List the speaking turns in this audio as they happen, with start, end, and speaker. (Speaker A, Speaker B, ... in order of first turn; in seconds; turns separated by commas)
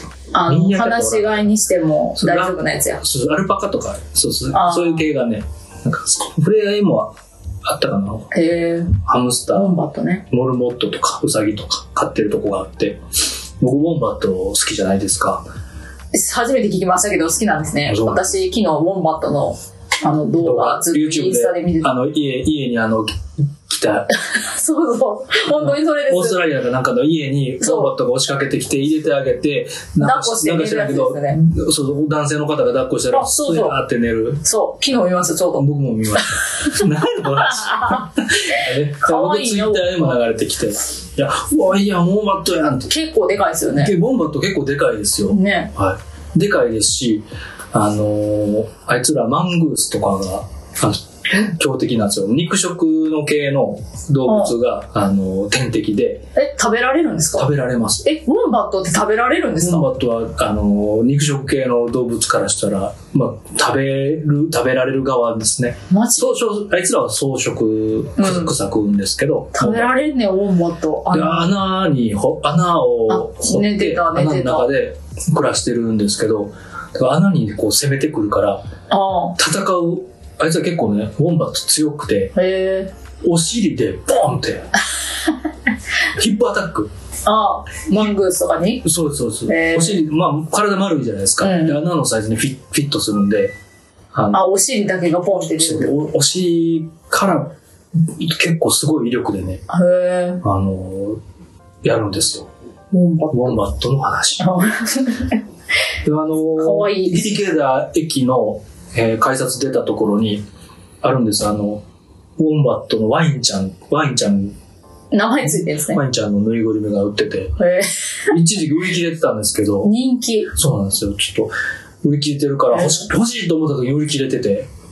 Speaker A: 0.3-3.0, Speaker B: 0.4-1.5, Speaker B: 2.1-8.3, Speaker A: 4.5-5.1, Speaker A: 8.3-9.0, Speaker B: 9.0-9.7, Speaker A: 9.5-10.2, Speaker B: 10.3-13.0, Speaker B: 13.6-15.4, Speaker A: 16.1-21.9, Speaker B: 17.9-18.3, Speaker B: 20.4-24.1, Speaker A: 24.1-26.5, Speaker B: 25.5-34.4, Speaker A: 27.6-27.9, Speaker A: 30.0-31.5, Speaker A: 33.1-33.8, Speaker A: 34.4-35.7, Speaker B: 35.5-42.9, Speaker A: 37.4-38.0, Speaker A: 38.5-40.2, Speaker A: 42.9-43.9, Speaker B: 43.7-56.2, Speaker A: 45.3-45.7, Speaker A: 54.2-54.5, Speaker A: 56.4-59.9, Speaker B: 57.4-58.0, Speaker B: 59.6-69.9, Speaker A: 65.9-66.3, Speaker A: 68.2-68.5, Speaker A: 69.5-71.5, Speaker B: 71.1-78.6, Speaker A: 73.1-74.7, Speaker A: 78.9-79.4, Speaker B: 79.4-82.3, Speaker A: 82.3-82.9, Speaker B: 83.2-84.7, Speaker B: 86.2-86.9, Speaker A: 87.2-88.9, Speaker B: 88.8-93.5, Speaker A: 89.5-90.0, Speaker A: 91.4-91.8, Speaker B: 94.1-94.4, Speaker A: 94.3-96.0, Speaker B: 95.5-97.5, Speaker B: 98.1-99.6, Speaker A: 99.7-100.4, Speaker B: 100.4-101.2, Speaker B: 101.8-102.5, Speaker A: 102.9-103.6, Speaker B: 103.3-104.5, Speaker A: 104.4-105.4, Speaker B: 106.0-110.4, Speaker A: 106.6-107.4, Speaker B: 111.0-111.8, Speaker B: 112.4-114.5, Speaker A: 115.1-116.0, Speaker B: 115.4-117.5, Speaker A: 117.6-118.4, Speaker B: 118.3-119.9, Speaker A: 119.8-120.5, Speaker B: 120.5-124.7, Speaker A: 122.8-123.0